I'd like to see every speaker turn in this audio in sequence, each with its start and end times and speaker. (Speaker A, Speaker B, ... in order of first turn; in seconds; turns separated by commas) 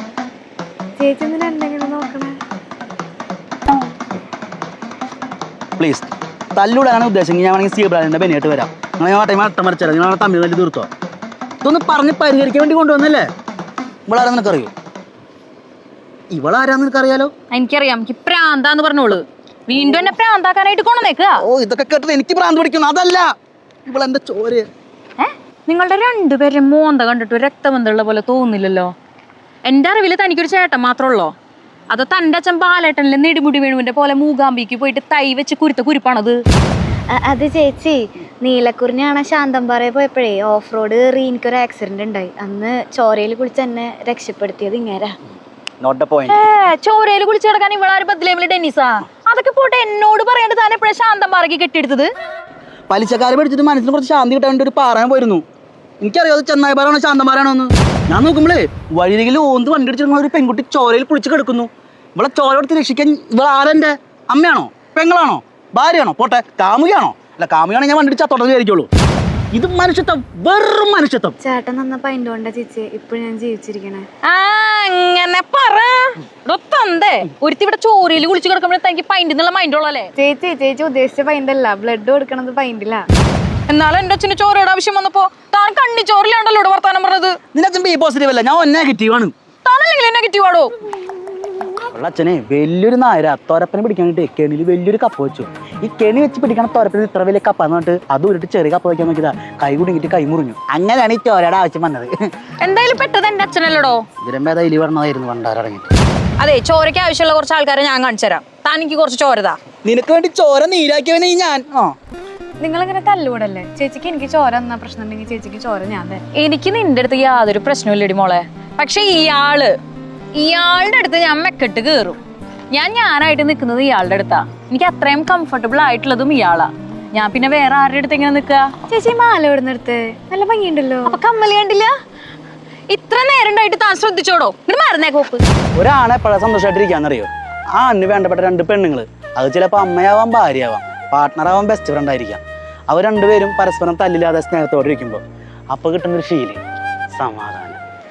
Speaker A: 1.0-2.4, Speaker B: 5.8-10.9, Speaker B: 11.6-13.3, Speaker B: 14.1-14.7, Speaker B: 16.3-17.3, Speaker C: 17.5-21.4, Speaker B: 21.4-23.3, Speaker B: 23.9-24.7, Speaker C: 25.2-28.9, Speaker C: 29.6-31.3, Speaker C: 31.9-36.4, Speaker A: 37.1-45.2, Speaker B: 45.8-46.4, Speaker C: 46.3-52.1, Speaker B: 52.9-55.5, Speaker B: 56.0-68.9, Speaker B: 69.5-71.3, Speaker A: 71.4-74.1, Speaker C: 74.2-80.1, Speaker A: 80.2-83.0, Speaker C: 83.7-87.4, Speaker B: 87.5-89.3, Speaker C: 89.7-90.7, Speaker B: 91.8-102.3, Speaker C: 102.6-104.0, Speaker B: 104.2-105.9, Speaker C: 106.4-109.6, Speaker B: 109.8-111.9, Speaker A: 112.6-116.2, Speaker C: 116.3-119.7, Speaker C: 120.3-122.2, Speaker C: 122.7-128.7, Speaker A: 128.9-131.2, Speaker C: 131.0-131.9, Speaker C: 132.9-135.4, Speaker B: 135.8-146.6, Speaker B: 147.1-147.8